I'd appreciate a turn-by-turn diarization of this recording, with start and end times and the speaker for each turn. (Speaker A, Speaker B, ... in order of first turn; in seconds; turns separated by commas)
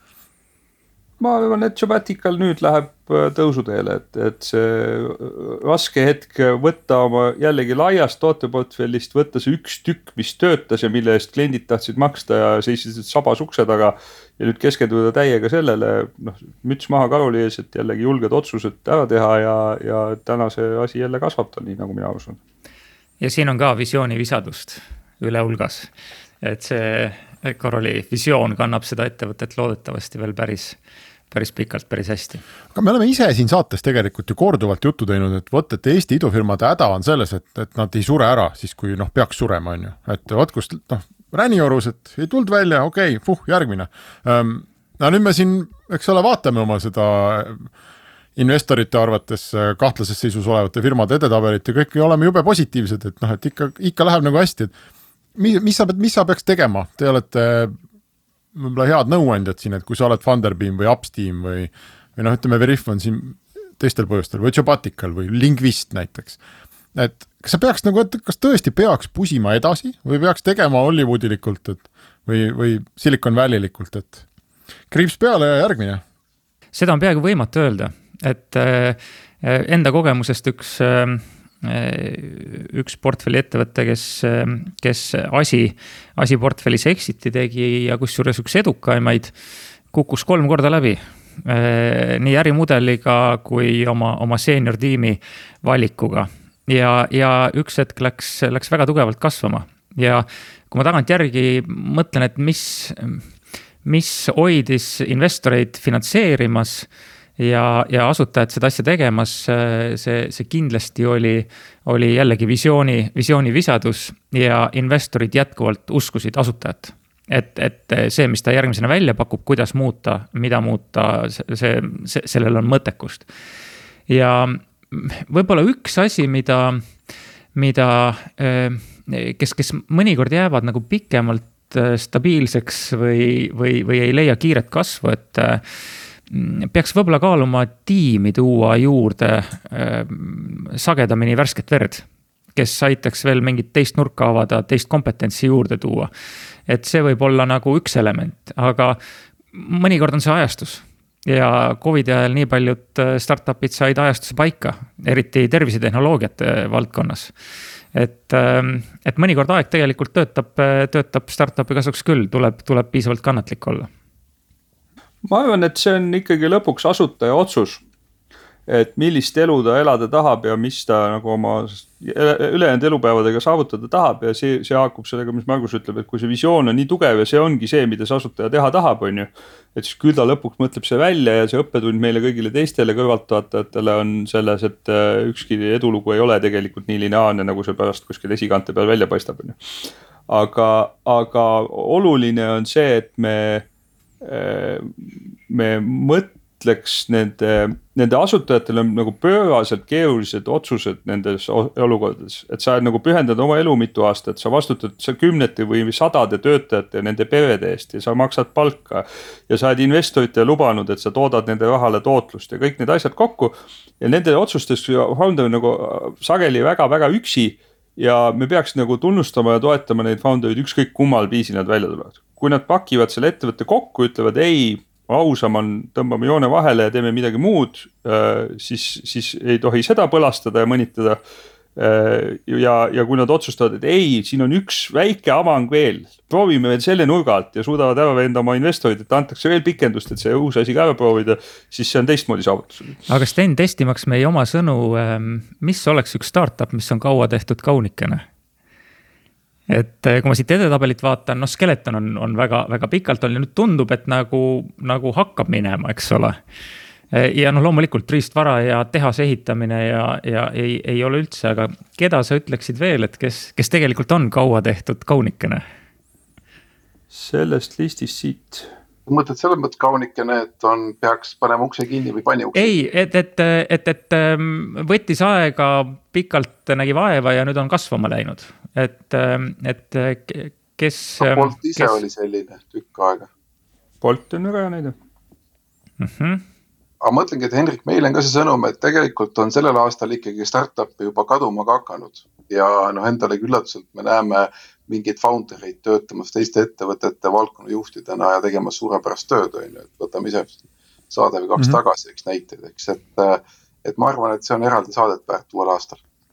Speaker A: 1.2-22.4, Speaker B: 23.2-25.9, Speaker B: 26.4-30.8, Speaker B: 31.3-32.4, Speaker C: 32.7-47.7, Speaker C: 48.4-54.7, Speaker C: 55.4-57.8, Speaker C: 58.5-66.4, Speaker C: 66.9-74.2, Speaker C: 74.9-76.0, Speaker B: 76.7-89.3, Speaker B: 89.9-103.2, Speaker B: 103.8-106.9, Speaker B: 107.4-123.3, Speaker B: 124.1-126.8, Speaker B: 127.5-135.6, Speaker B: 136.3-146.1, Speaker B: 146.7-149.0, Speaker B: 149.5-157.3, Speaker B: 157.9-163.9, Speaker A: 165.2-167.8, Speaker A: 168.7-189.6, Speaker A: 190.3-193.6, Speaker A: 194.2-231.2, Speaker A: 231.8-243.0, Speaker B: 243.1-248.2, Speaker B: 249.7-256.4, Speaker B: 257.1-265.6, Speaker A: 267.1-268.7, Speaker D: 269.1-272.7, Speaker B: 272.5-282.0, Speaker D: 281.2-283.3, Speaker A: 284.0-284.9, Speaker B: 286.0-286.4, Speaker D: 287.0-306.0